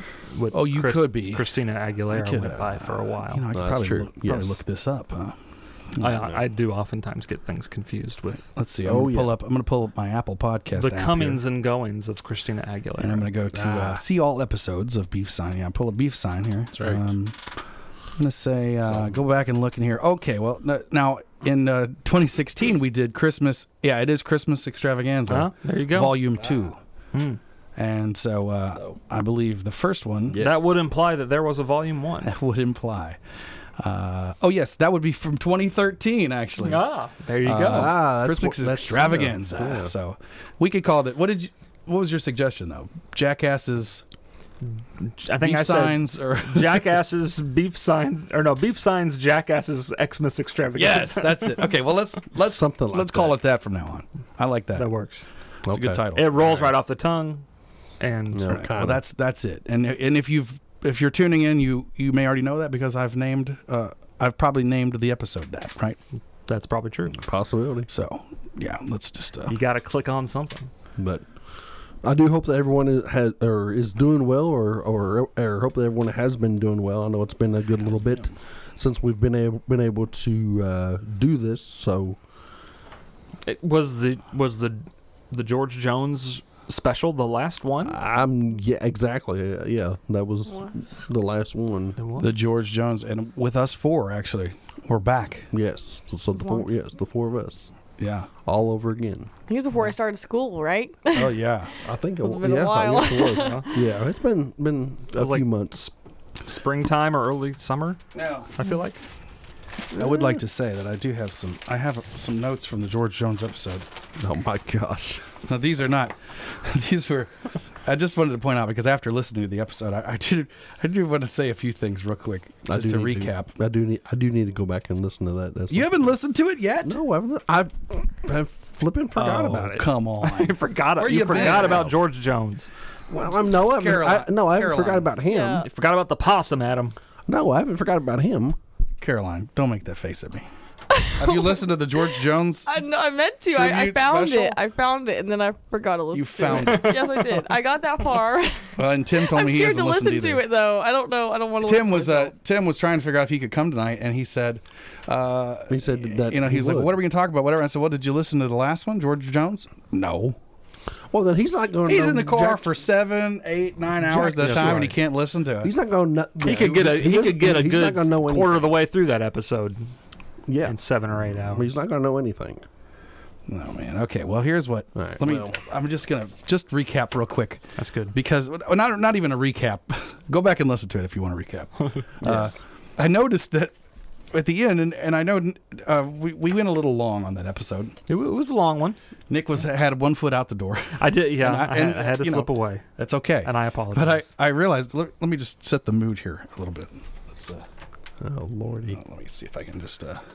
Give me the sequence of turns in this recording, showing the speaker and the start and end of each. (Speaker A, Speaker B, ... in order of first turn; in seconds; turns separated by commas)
Speaker A: 0.3-3.4, Speaker B: 0.5-1.5, Speaker B: 2.1-5.4, Speaker C: 3.5-4.6, Speaker B: 5.9-6.3, Speaker A: 6.0-8.5, Speaker B: 8.6-11.4, Speaker C: 8.8-9.3, Speaker A: 10.8-13.3, Speaker B: 13.0-17.4, Speaker C: 13.5-14.0, Speaker C: 16.8-17.1, Speaker B: 18.1-26.8, Speaker A: 25.3-26.3, Speaker C: 26.4-26.7, Speaker A: 27.1-27.4, Speaker B: 27.8-30.4, Speaker C: 30.3-30.7, Speaker A: 30.4-32.3, Speaker B: 32.2-33.2, Speaker B: 33.8-36.9, Speaker A: 36.6-38.1, Speaker B: 37.4-44.0, Speaker C: 37.5-39.9, Speaker A: 45.0-51.7, Speaker B: 45.4-47.0, Speaker B: 50.8-54.9, Speaker C: 52.4-53.4, Speaker A: 54.8-55.2, Speaker C: 55.7-56.0, Speaker B: 55.7-56.8, Speaker A: 56.1-57.4, Speaker A: 58.0-58.6, Speaker C: 58.3-59.0, Speaker B: 58.5-66.0, Speaker A: 66.5-67.2, Speaker C: 67.1-67.9, Speaker B: 67.9-69.5, Speaker A: 69.5-70.7, Speaker C: 71.0-71.2, Speaker C: 72.0-82.2, Speaker A: 83.5-88.0, Speaker C: 87.8-92.0, Speaker A: 92.0-92.4, Speaker B: 92.2-95.5, Speaker C: 95.5-97.7, Speaker D: 96.3-96.7, Speaker B: 98.0-98.3, Speaker C: 98.4-99.3, Speaker D: 99.5-101.3, Speaker B: 101.1-101.7, Speaker C: 101.8-105.9, Speaker D: 102.2-103.8, Speaker A: 103.4-103.7, Speaker A: 105.2-105.9, Speaker A: 106.4-108.0, Speaker B: 108.1-108.5, Speaker A: 108.6-109.0, Speaker B: 109.9-113.8, Speaker C: 114.2-115.2, Speaker B: 115.4-117.3, Speaker B: 117.8-123.5, Speaker C: 122.7-126.1, Speaker B: 125.7-127.0, Speaker C: 126.8-129.9, Speaker B: 129.1-132.0, Speaker A: 130.2-132.7, Speaker C: 131.3-131.9, Speaker B: 133.1-135.1, Speaker C: 133.1-135.7, Speaker D: 135.3-135.7, Speaker A: 135.7-136.9, Speaker C: 137.3-138.6, Speaker B: 139.0-140.5, Speaker D: 140.9-141.6, Speaker B: 141.1-142.7, Speaker D: 142.7-152.3, Speaker B: 143.5-144.6, Speaker B: 146.1-147.0, Speaker A: 146.5-147.4, Speaker B: 148.8-150.4, Speaker B: 151.6-160.4, Speaker C: 155.7-157.0, Speaker C: 161.1-162.7, Speaker B: 161.8-165.7, Speaker C: 164.0-165.0, Speaker A: 164.4-164.8, Speaker C: 165.6-168.7, Speaker A: 166.4-169.8, Speaker B: 166.4-166.9, Speaker C: 170.5-170.8, Speaker A: 170.6-171.7, Speaker C: 171.5-172.6, Speaker B: 173.5-183.7, Speaker C: 174.9-175.5, Speaker A: 177.8-178.1, Speaker C: 182.2-182.6, Speaker B: 184.3-187.9, Speaker A: 188.1-189.0, Speaker B: 189.3-197.6, Speaker A: 191.0-192.8, Speaker A: 193.4-194.2, Speaker C: 198.2-199.0, Speaker B: 198.9-200.2